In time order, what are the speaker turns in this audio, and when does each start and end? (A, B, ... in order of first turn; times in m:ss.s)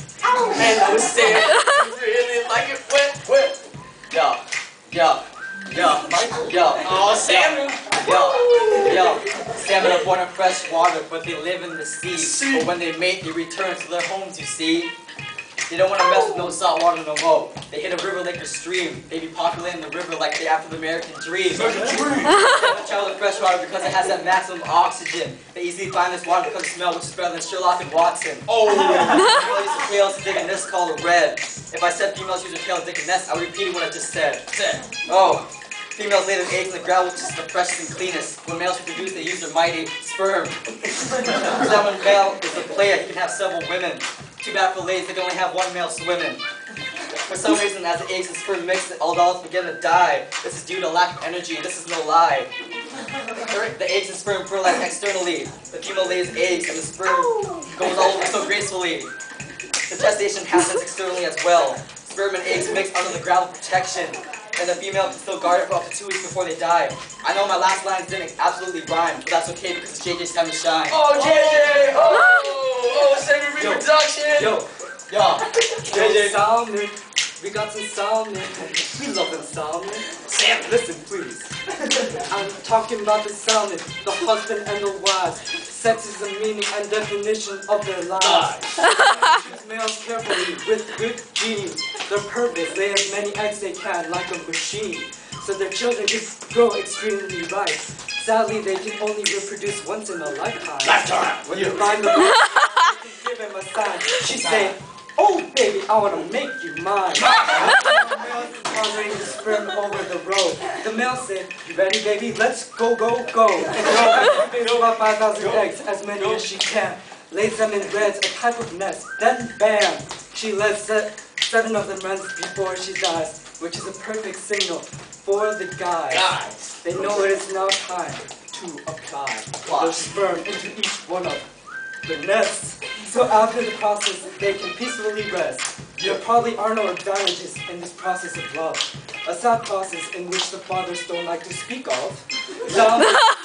0:00.2-0:03.6 A
0:04.1-0:14.9 B
0:06.8-0:09.0 A
0:12.1-0:12.7 A
0:15.7-0:46.4 B
0:21.5-0:22.4 A
0:21.7-0:22.0 C
0:28.5-0:29.5 A
0:47.3-0:52.5 B
0:53.3-0:59.1 B
0:59.9-1:11.0 B
1:10.9-1:14.5 A
1:11.1-1:12.0 C
1:13.6-1:14.7 C
1:15.1-1:16.4 B
1:15.9-1:20.1 C
1:20.2-1:20.7 A
1:20.6-1:21.5 C
1:22.1-2:11.4 C
1:28.2-1:29.0 A
1:40.8-1:41.6 A
1:41.5-1:41.8 B
1:44.4-1:44.7 A
1:47.2-1:48.2 A
1:53.8-1:56.4 A
2:06.1-2:07.2 A
2:09.6-2:10.1 B
2:12.0-2:23.3 C